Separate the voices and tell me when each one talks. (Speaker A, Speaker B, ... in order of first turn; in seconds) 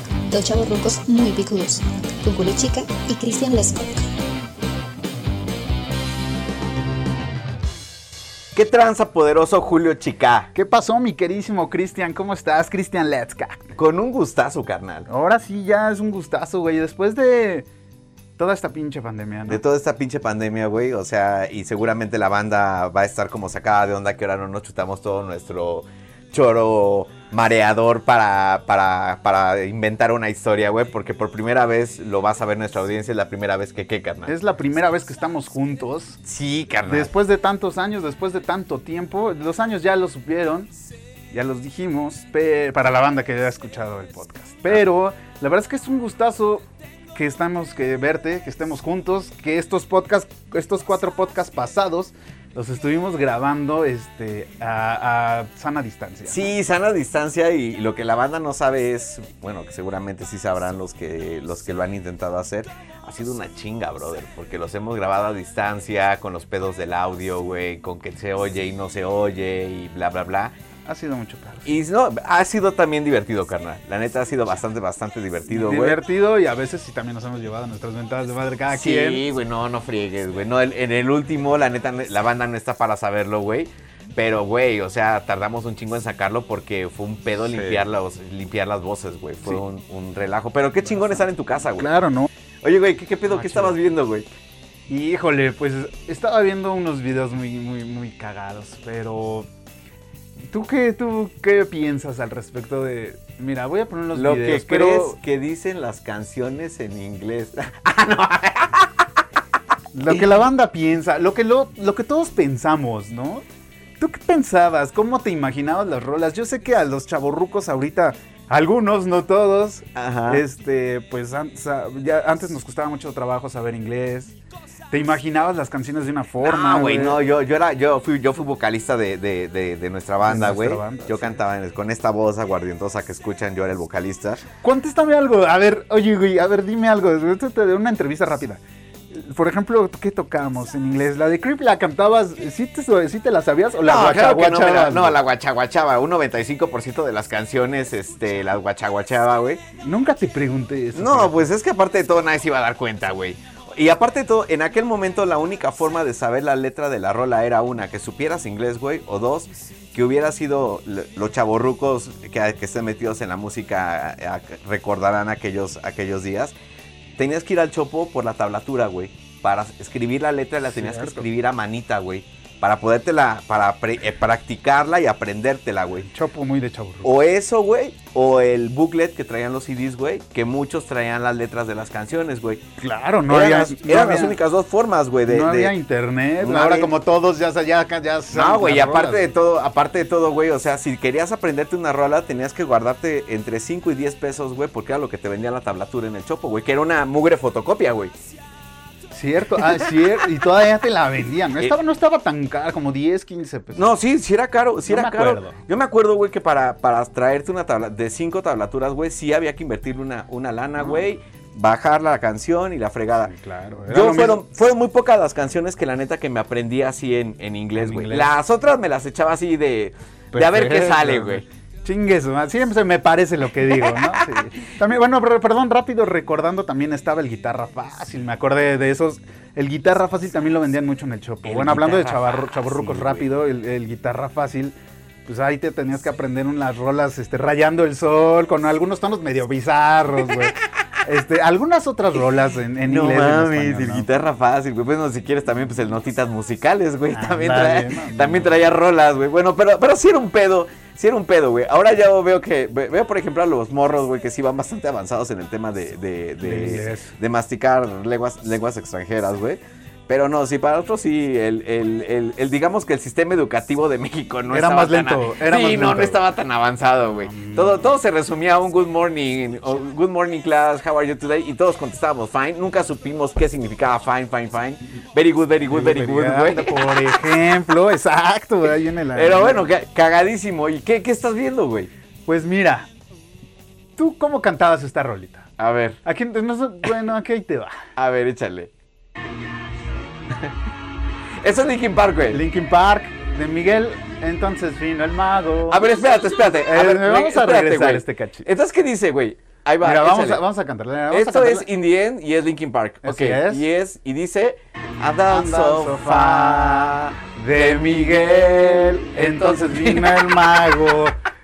Speaker A: 0.3-4.0
Speaker B: 8.5-10.5, 13.8-15.1, 19.5-34.3, 36.2-37.1, 56.3-70.5, 71.7-76.0, 78.7-91.9, 92.6-94.3, 104.1-109.2, 119.9-120.4, 126.4-134.4, 143.8-149.6, 150.9-166.5, 167.2-176.1, 177.0-182.6, 183.3-185.7, 186.4-186.9, 188.3-198.1, 203.7-213.3, 213.9-221.4, 223.6-224.4, 231.4-233.2, 242.8-277.2, 279.1-281.9, 285.6-286.0, 288.0-288.7, 290.3-290.5, 291.4-292.4, 295.7-300.4, 301.1-310.4
Speaker C: 10.5-13.7, 15.1-17.7, 18.4-19.6, 34.3-36.2, 36.9-40.7, 41.3-46.6, 47.1-56.5, 70.8-71.7, 75.5-79.2, 87.5-87.8, 91.0-91.2, 91.8-92.3, 93.3-93.8, 94.9-99.5, 100.5-105.1, 109.9-113.4, 114.0-124.3, 124.9-127.2, 130.2-131.4, 134.6-138.6, 139.1-145.2, 149.8-151.4, 170.7-171.3, 176.1-177.1, 182.8-184.4, 185.3-189.3, 199.1-203.8, 204.9-205.6, 213.2-214.4, 217.8-218.3, 220.3-234.7, 235.2-244.1, 247.1-248.5, 256.4-257.1, 264.5-266.2, 267.3-267.8, 275.7-279.7, 282.3-282.9, 284.0-285.5, 286.0-287.8, 292.3-295.9, 296.6-298.5, 299.8-301.7, 303.0-303.6, 305.3-311.2